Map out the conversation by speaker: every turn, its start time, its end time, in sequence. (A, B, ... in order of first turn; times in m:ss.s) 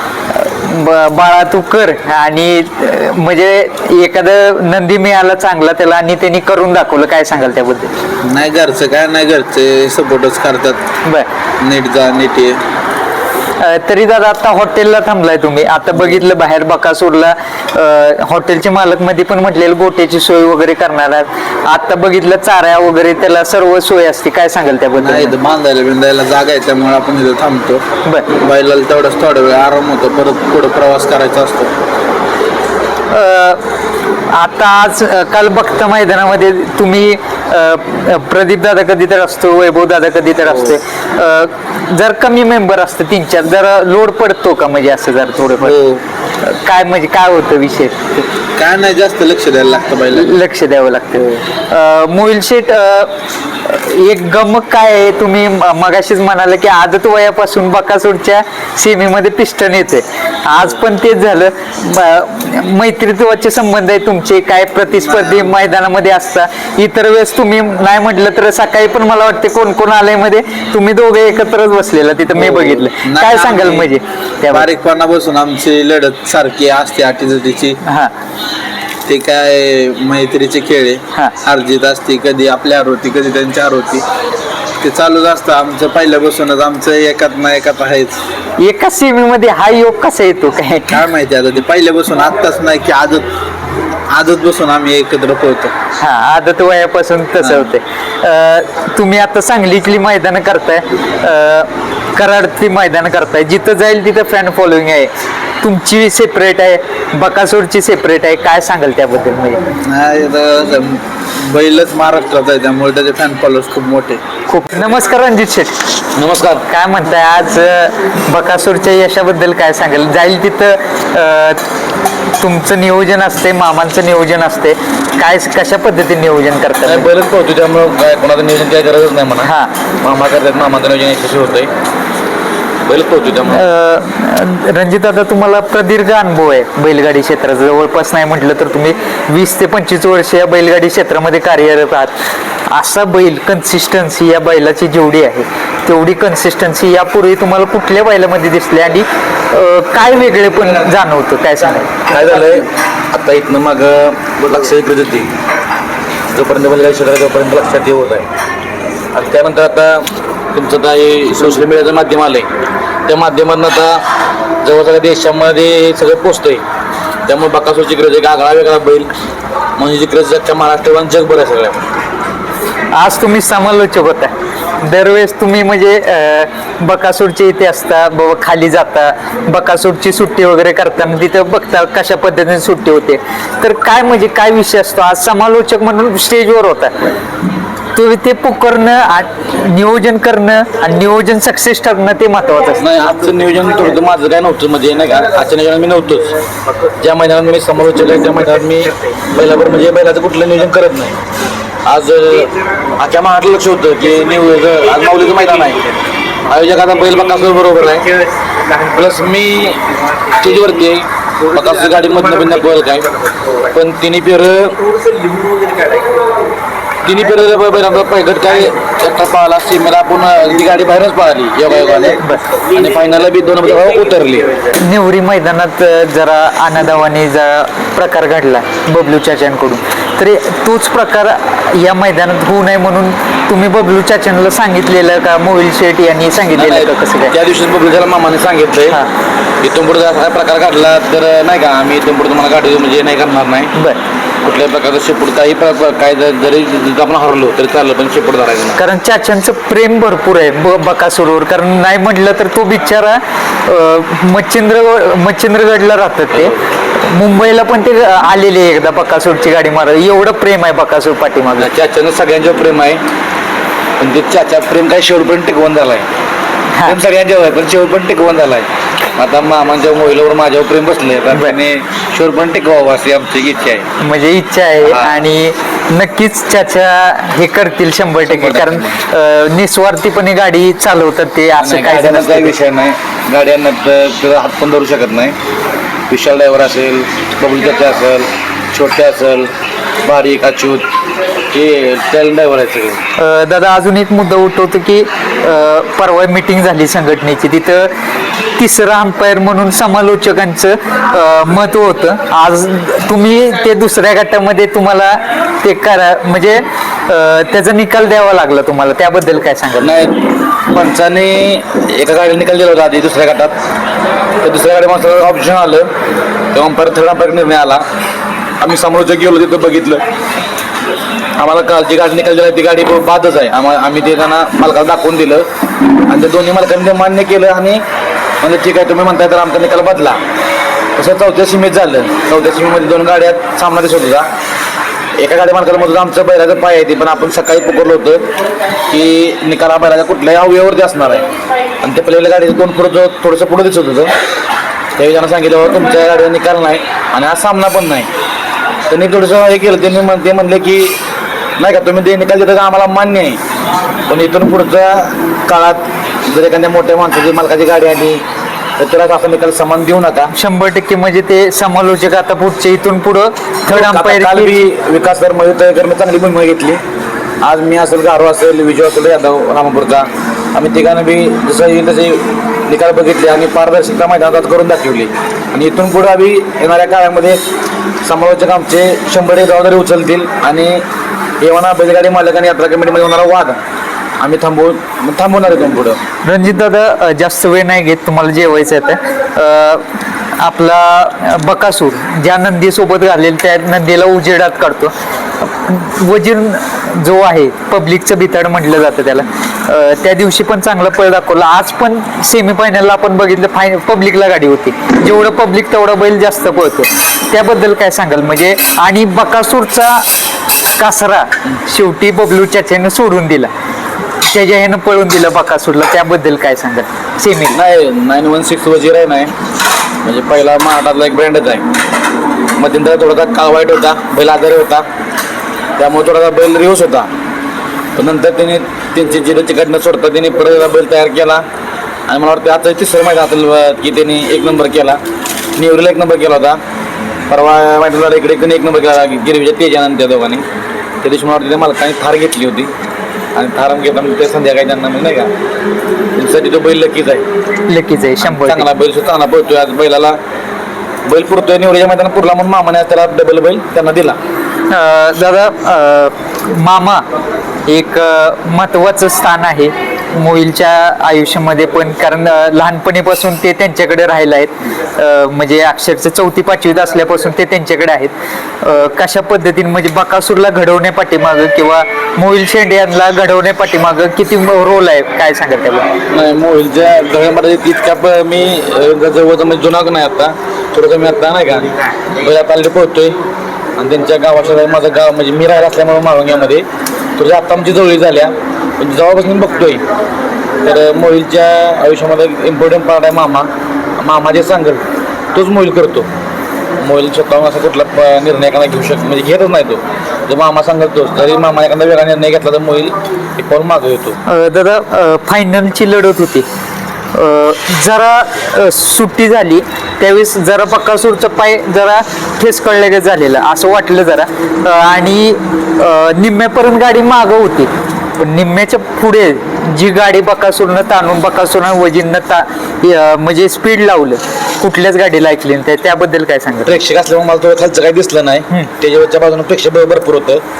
0:00.3-0:07.9 A
0:08.2-0:10.8 B
0:11.6-0:12.6 B
0:13.6-0:25.3 A
0:25.0-0:31.7 B
0:33.1-0:33.6 A
0:34.3-0:45.8 A
0:40.5-0:40.8 B
0:45.6-0:46.0 B
0:46.4-0:48.3 A
0:48.6-0:50.4 B
0:50.1-0:53.1 A
0:53.6-1:14.7 A
1:12.3-1:13.9 B
1:14.5-1:17.8 B
1:17.8-1:18.1 A
1:19.1-1:24.0 B
1:24.8-1:28.2 B
1:28.6-1:31.0 A
1:30.9-1:33.3 B
1:34.1-1:35.7 B
1:36.0-1:45.1 A
1:37.4-1:37.7 B
1:45.6-1:49.6 A
1:49.8-1:54.2 B
1:54.5-1:55.8 A
1:56.1-1:56.6 C
1:56.7-2:01.6 A
2:02.4-2:07.1 A
2:06.8-2:09.5 C
2:09.4-2:09.7 A
2:10.0-2:11.7 C
2:12.8-2:13.7 C
2:13.5-2:22.1 A
2:22.7-2:32.0 A
2:30.6-2:30.9 C
2:32.0-2:35.3 C
2:36.3-2:38.3 C
2:39.1-2:42.5 C
2:43.1-2:44.0 C
2:44.6-2:46.6 C
2:47.3-2:49.1 C
2:49.8-2:51.8 C
2:52.9-3:07.1 A
3:07.9-3:12.8 A
3:12.8-3:16.3 C
3:17.0-3:21.1 C
3:21.8-3:25.9 C
3:26.4-3:28.1 C
3:28.8-3:33.1 C
3:33.6-3:34.8 C
3:37.0-3:44.5 C
3:44.8-3:57.3 A
3:56.5-3:59.0 C
3:59.6-4:03.7 C
4:04.4-4:08.8 C
4:08.8-4:21.7 A
4:16.3-4:16.6 C
4:21.6-4:23.0 C
4:24.0-4:26.1 C
4:26.7-4:27.0 A
4:26.8-4:33.9 C
4:31.3-4:31.6 A
4:34.0-4:42.5 A
4:34.8-4:35.2 C
4:38.3-4:39.0 C
4:41.6-4:45.4 C
4:46.1-4:49.5 C
4:50.0-4:50.8 C
4:51.5-4:53.0 C
4:53.2-4:57.9 A
4:58.6-5:10.0 A
5:09.8-5:13.6 C
5:14.4-5:15.9 C
5:16.5-5:17.8 C
5:18.6-5:20.0 C
5:21.4-5:25.5 C
5:26.1-5:27.8 C
5:28.4-5:30.2 C
5:31.0-5:34.3 C
5:35.2-5:38.3 C
5:38.9-5:41.3 C
5:41.8-5:44.1 C
5:45.0-5:48.1 C
5:48.9-5:51.0 C
5:51.6-5:53.4 C
5:54.1-5:58.2 C
5:58.8-6:00.3 C
6:00.3-6:04.6 A
6:03.7-6:06.8 C
6:07.4-6:17.4 C
6:18.0-6:20.8 C
6:21.4-6:23.6 C
6:24.2-6:26.0 C
6:26.2-6:29.8 A
6:30.4-6:50.0 A
6:50.8-6:53.5 A
6:54.2-6:57.6 A
6:57.5-6:59.3 C
7:00.0-7:01.7 C
7:02.6-7:04.8 C
7:05.8-7:07.1 C
7:08.0-7:11.4 C
7:12.1-7:15.0 C
7:15.6-7:16.6 C
7:17.3-7:20.4 C
7:21.0-7:22.7 C
7:23.4-7:25.3 C
7:26.2-7:27.2 C
7:27.7-7:28.7 A
7:28.2-7:30.2 C
7:31.0-7:34.2 C
7:34.7-7:37.0 A
7:37.7-7:55.9 A
7:56.1-8:03.2 C
8:03.8-8:06.6 C
8:07.2-8:09.8 C
8:10.6-8:16.1 C
8:16.8-8:24.2 C
8:24.2-8:26.4 A
8:27.1-8:46.8 A
8:46.6-8:50.4 C